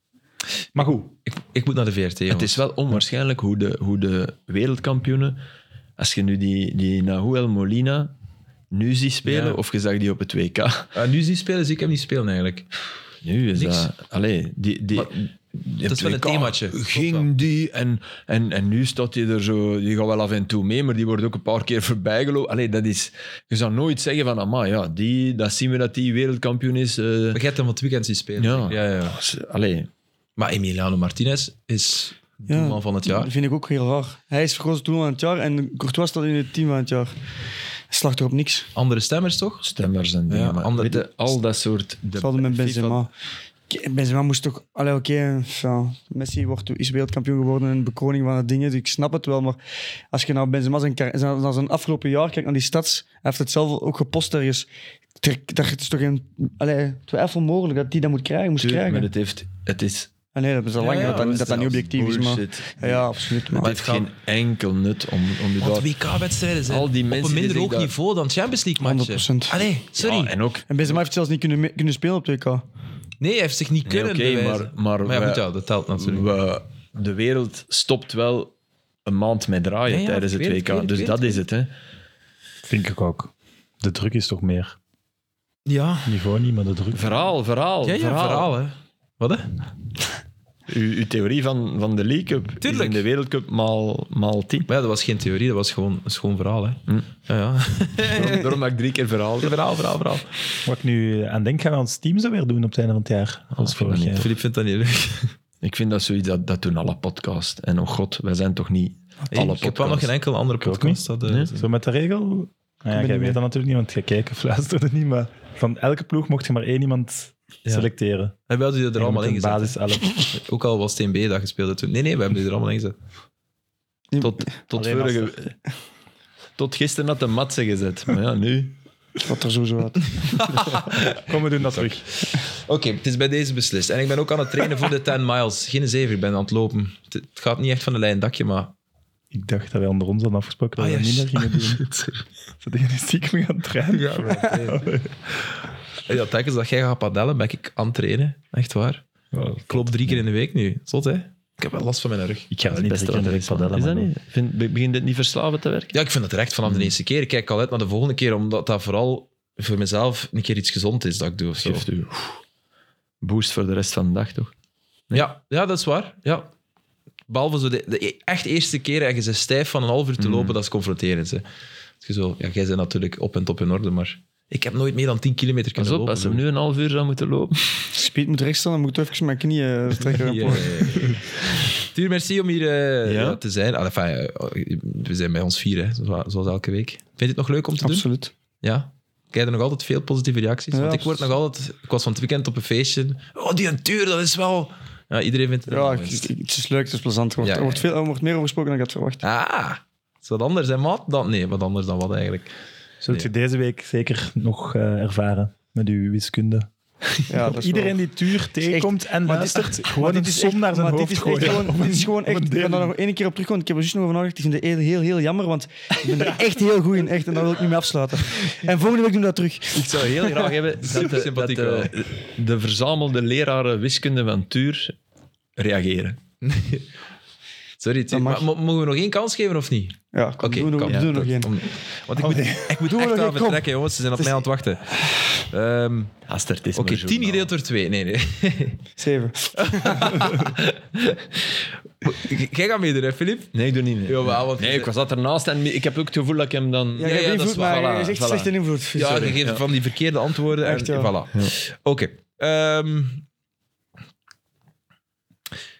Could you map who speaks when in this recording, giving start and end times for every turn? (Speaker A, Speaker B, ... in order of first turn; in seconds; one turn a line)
Speaker A: 0.7-1.1
Speaker B: 1.2-2.6
Speaker C: 2.3-5.4
Speaker C: 6.0-8.1
Speaker C: 8.7-10.9
Speaker B: 9.2-9.6
Speaker B: 10.9-12.7
Speaker C: 13.2-27.4
Speaker B: 13.6-13.9
Speaker B: 14.9-15.3
Speaker B: 15.8-17.3
Speaker B: 27.3-29.2
Speaker C: 28.4-29.9
Speaker B: 30.4-33.3
Speaker D: 32.5-37.1
Speaker D: 37.9-38.7
Speaker B: 38.7-41.3
Speaker C: 39.6-43.0
Speaker D: 42.2-43.1
Speaker D: 43.7-49.6
Speaker D: 50.1-54.7
Speaker D: 55.2-59.1
Speaker C: 58.6-60.1
Speaker D: 60.3-63.7
Speaker B: 60.8-61.8
Speaker C: 60.9-65.9
Speaker B: 63.6-64.1
Speaker B: 65.6-70.3
Speaker C: 66.7-67.9
Speaker D: 68.8-69.6
Speaker C: 70.0-71.0
Speaker D: 70.7-72.6
Speaker B: 73.2-76.3
Speaker C: 73.8-78.5
Speaker C: 79.0-81.7
Speaker B: 79.9-81.4
Speaker A: 82.6-84.8
Speaker B: 85.7-86.2
Speaker A: 86.0-87.2
Speaker C: 86.9-88.5
Speaker B: 87.8-89.5
Speaker C: 90.7-94.7
Speaker B: 92.6-93.0
Speaker B: 94.7-98.6
Speaker C: 98.0-99.7
Speaker B: 99.4-100.3
Speaker A: 100.7-104.3
Speaker C: 103.6-104.3
Speaker B: 104.2-105.3
Speaker C: 105.6-110.1
Speaker B: 109.3-111.7
Speaker A: 110.6-118.3
Speaker C: 111.2-111.5
Speaker D: 112.9-113.4
Speaker B: 118.5-122.9
Speaker A: 119.0-120.2
Speaker D: 124.1-124.5
Speaker C: 124.2-125.5
Speaker A: 124.7-125.3
Speaker C: 126.6-128.8
Speaker D: 129.2-130.2
Speaker B: 130.2-131.2
Speaker C: 130.4-130.7
Speaker A: 131.1-132.0
Speaker B: 131.7-138.7
Speaker A: 139.3-141.9
Speaker B: 140.8-142.1
Speaker A: 142.6-145.1
Speaker B: 143.9-149.0
Speaker A: 149.3-150.2
Speaker B: 149.7-152.5
Speaker A: 152.5-154.1
Speaker C: 152.7-155.9
Speaker B: 155.9-161.8
Speaker C: 156.6-156.9
Speaker C: 161.6-162.4
Speaker C: 163.2-164.5
Speaker B: 165.1-166.5
Speaker B: 167.3-171.4
Speaker C: 170.2-170.6
Speaker B: 172.0-176.4
Speaker C: 175.8-177.9
Speaker D: 177.9-181.2
Speaker B: 180.0-188.1
Speaker C: 183.0-183.4
Speaker D: 187.8-188.3
Speaker B: 188.6-196.3
Speaker D: 190.7-191.2
Speaker D: 195.7-199.2
Speaker B: 197.4-197.8
Speaker B: 199.2-202.5
Speaker A: 203.0-206.7
Speaker D: 207.3-208.0
Speaker A: 207.3-212.9
Speaker D: 208.6-220.5
Speaker C: 219.7-224.9
Speaker B: 220.8-221.9
Speaker C: 225.6-226.2
Speaker B: 226.4-226.8
Speaker B: 227.8-236.2
Speaker D: 228.1-228.5
Speaker D: 230.1-231.5
Speaker A: 232.1-232.8
Speaker D: 232.9-234.4
Speaker C: 236.3-237.5
Speaker B: 236.7-238.8
Speaker D: 239.0-240.4
Speaker B: 239.6-243.5
Speaker C: 243.5-248.5
Speaker B: 244.1-244.9
Speaker D: 246.9-249.4
Speaker B: 247.0-247.8
Speaker B: 248.9-253.2
Speaker C: 249.2-249.6
Speaker D: 250.6-251.1